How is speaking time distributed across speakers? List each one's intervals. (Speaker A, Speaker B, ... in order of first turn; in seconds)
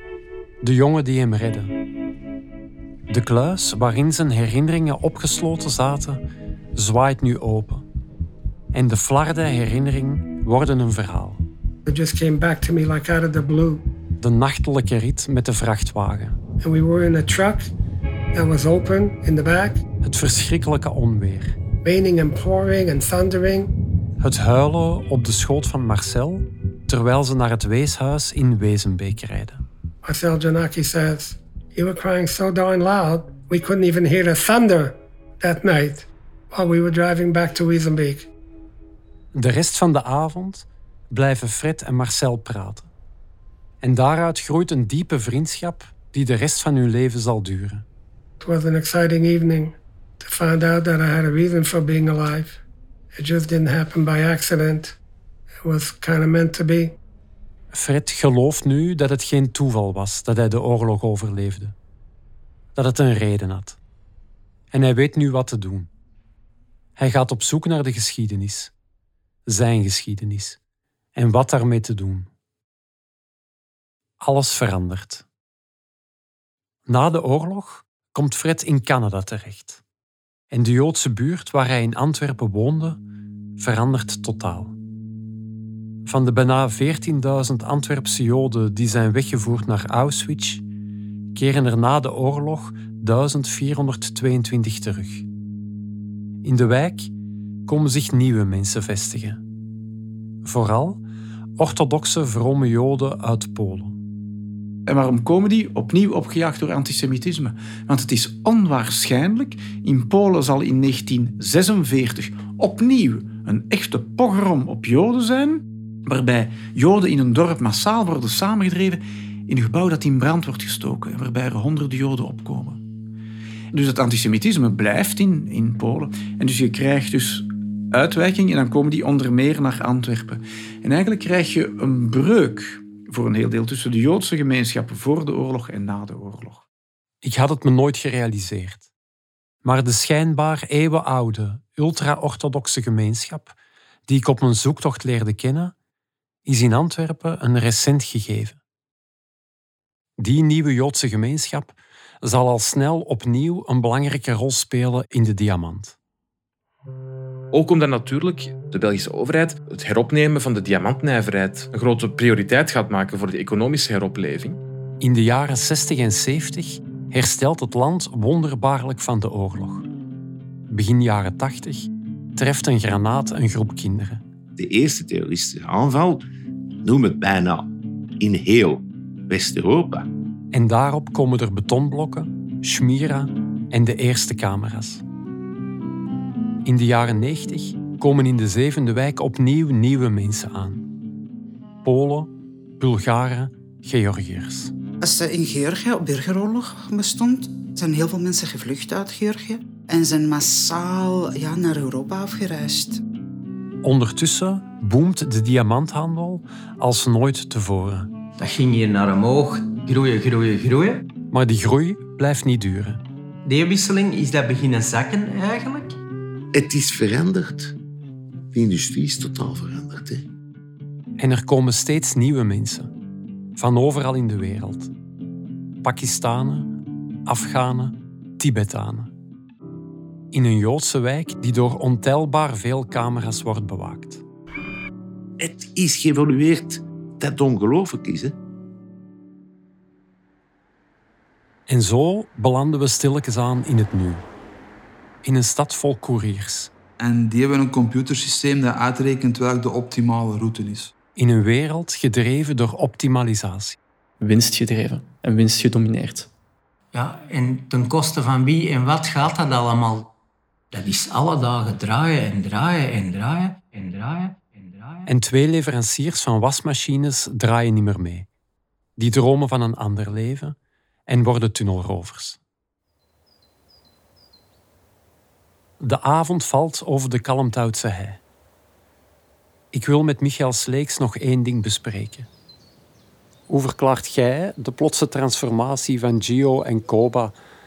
Speaker A: 0.6-1.7, 3.1-6.2, 6.8-7.9, 8.7-11.4, 14.2-16.4, 20.0-21.6, 24.2-29.6, 39.3-42.9, 43.8-47.9, 57.7-61.8, 62.8-63.8, 64.7-65.9, 67.0-68.7, 69.5-70.6, 71.2-72.3, 74.2-75.3, 76.9-79.8, 80.5-83.0, 83.6-84.8, 86.0-90.6, 91.3-95.3, 96.4-97.1, 97.7-99.4, 100.4-101.0, 101.6-104.0, 137.2-138.9, 139.6-143.6, 144.1-145.7, 146.4-148.6, 150.2-156.0, 165.0-169.9, 170.7-174.2, 180.5-185.0, 186.6-190.9, 191.8-194.7, 203.8-208.1, 211.3-213.0, 221.2-222.9, 223.6-224.9, 225.8-226.8, 227.3-229.1, 230.3-234.2, 241.7-244.2, 245.2-246.7, 251.2-253.8, 265.1-268.3, 269.0-270.6, 271.1-272.4, 275.8-278.2, 279.7-282.3, 283.5-287.4
Speaker B: 11.9-13.8, 16.6-17.7, 18.3-19.8, 21.8-23.7, 30.0-38.3, 48.4-52.6, 53.1-55.0, 55.6-57.0
Speaker C: 104.9-122.8, 123.7-136.7
Speaker D: 157.5-164.6
Speaker E: 174.6-176.3, 176.8-177.7, 178.2-180.1, 216.6-217.8, 218.5-220.2, 235.4-238.4
Speaker F: 195.0-203.0
Speaker G: 208.4-211.1, 213.4-216.0, 256.9-260.1, 260.7-265.1
Speaker H: 247.0-250.9
Speaker I: 254.2-256.3